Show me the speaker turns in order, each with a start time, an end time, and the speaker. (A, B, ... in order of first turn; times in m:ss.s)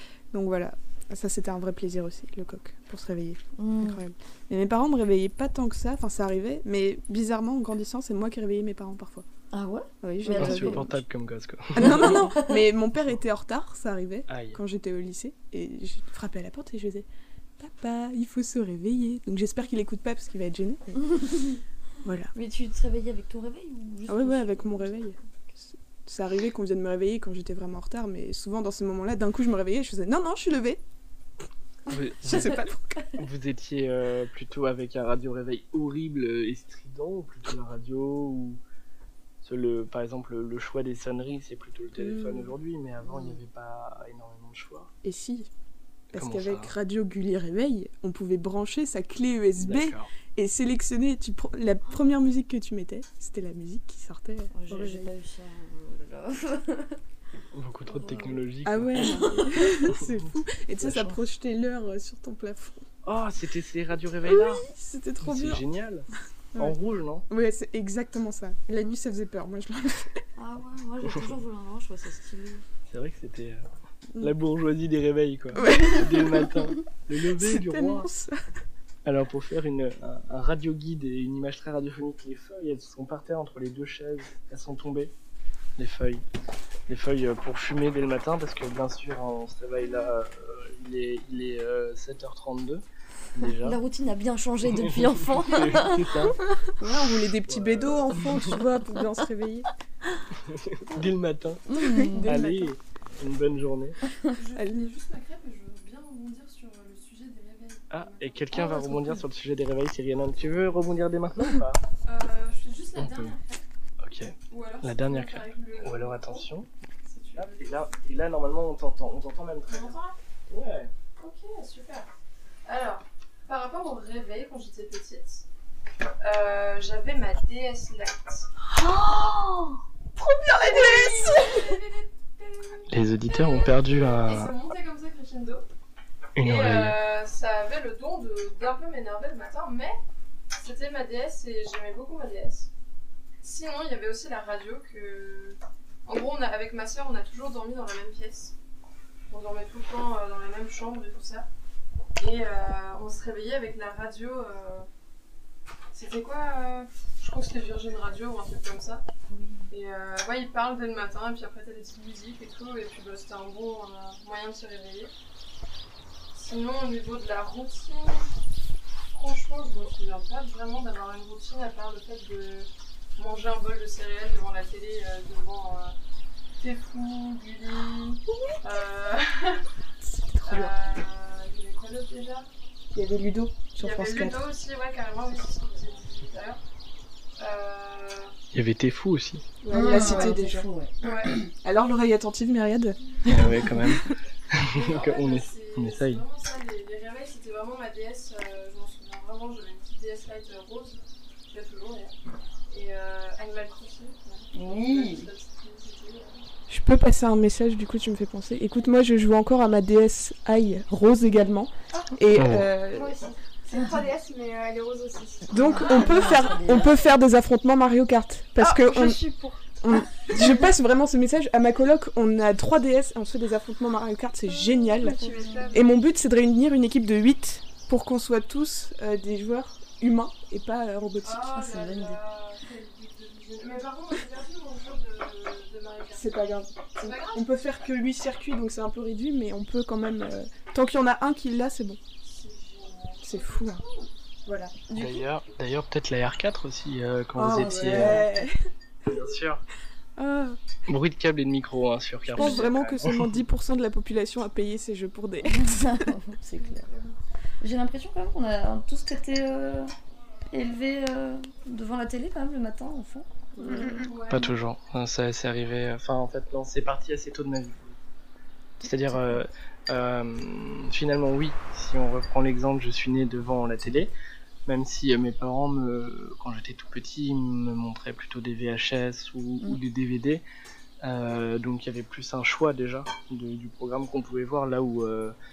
0:00.3-0:09.2 A
0:03.6-0:04.0 B
0:09.5-0:10.9 B
0:10.0-0:11.0 A
0:10.4-0:12.1 C
0:11.7-0:17.1 A
0:11.8-0:12.7 B
0:14.3-0:14.6 C
0:17.6-0:21.0 A
0:21.1-0:21.6 B
0:22.0-0:22.3 A
0:22.3-0:25.1 B
0:24.1-0:25.2 A
0:25.7-0:30.8 A
0:31.9-0:32.6 C
0:31.9-0:33.1 A
0:33.2-0:38.6 C
0:39.4-0:44.9 C
0:42.0-0:42.5 A
0:43.0-0:43.4 B
0:45.0-0:45.5 A
0:46.1-0:46.7 C
0:46.1-0:55.1 A
0:49.6-0:50.1 C
0:54.5-0:57.0 B
0:57.5-0:59.1 C
0:57.9-0:58.4 B
0:58.6-1:02.9 A
0:59.0-0:59.8 B
1:00.8-1:01.2 C
1:03.0-1:04.7 C
1:04.2-1:05.6 A
1:05.2-1:07.3 C
1:07.3-1:10.1 A
1:10.4-1:12.6 B
1:11.0-1:11.4 C
1:12.9-1:13.6 C
1:14.2-1:18.1 C
1:15.6-1:16.7 A
1:17.4-1:18.4 A
1:19.0-1:25.1 C
1:25.8-1:26.2 C
1:26.9-1:33.8 C
1:33.6-1:36.1 B
1:34.7-1:36.4 C
1:36.8-1:39.7 A
1:37.5-1:38.6 C
1:40.4-1:41.6 C
1:41.7-1:42.4 B
1:41.8-1:42.7 A
1:42.3-1:44.0 C
1:44.4-1:48.8 D
1:44.6-1:44.9 A
1:47.9-1:51.8 C
1:52.0-1:53.6 D
1:53.0-1:53.4 C
1:54.0-1:56.7 C
1:54.5-1:56.5 D
1:57.0-1:58.0 D
1:57.4-2:00.0 C
1:59.7-2:00.1 D
2:00.5-2:00.9 C
2:01.2-2:02.1 D
2:02.7-2:05.4 D
2:06.2-2:08.5 D
2:08.8-2:09.7 B
2:10.4-2:15.7 D
2:10.5-2:11.5 A
2:12.9-2:14.5 C
2:16.4-2:17.0 C
2:16.4-2:20.0 D
2:20.5-2:22.7 D
2:23.4-2:28.5 D
2:29.3-2:31.5 D
2:32.2-2:34.9 D
2:35.9-2:39.0 D
2:39.3-2:39.7 B
2:39.7-2:45.1 D
2:46.3-2:48.3 D
2:49.1-2:56.0 D
2:56.6-2:59.6 D
3:00.0-3:00.8 A
3:00.4-3:02.5 D
3:02.9-3:04.5 A
3:03.8-3:06.6 D
3:07.4-3:08.3 D
3:08.5-3:09.4 C
3:09.6-3:10.7 A
3:09.7-3:11.5 B
3:09.8-3:10.4 D
3:11.0-3:11.4 D
3:11.6-3:14.1 A
3:13.3-3:16.2 C
3:14.8-3:22.2 D
3:22.7-3:26.5 D
3:24.5-3:25.3 B
3:26.7-3:33.2 A
3:32.3-3:32.7 C
3:32.9-3:36.2 E
3:35.5-3:39.2 A
3:35.6-3:37.0 B
3:38.6-3:39.6 E
3:39.8-3:51.5 A
3:44.9-3:45.8 E
3:45.0-3:45.7 D
3:45.1-3:45.8 B
3:51.2-3:56.4 D
3:51.4-3:52.2 B
3:56.1-4:02.0 A
3:57.0-3:57.4 D
4:02.2-4:04.0 D
4:03.2-4:03.8 A
4:04.5-4:04.7 A
4:04.9-4:05.2 B
4:05.0-4:08.2 C
4:07.4-4:08.5 A
4:07.6-4:08.2 B
4:09.1-4:09.6 C
4:10.2-4:10.6 A
4:10.9-4:13.4 C
4:12.3-4:16.1 A
4:15.5-4:16.9 B
4:16.6-4:17.1 D
4:17.6-4:19.9 B
4:20.5-4:24.0 B
4:23.6-4:24.1 A
4:23.6-4:24.2 E
4:23.7-4:24.5 D
4:24.3-4:28.0 C
4:28.8-4:34.1 C
4:28.8-4:29.1 B
4:34.7-4:40.4 C
4:41.0-4:45.4 C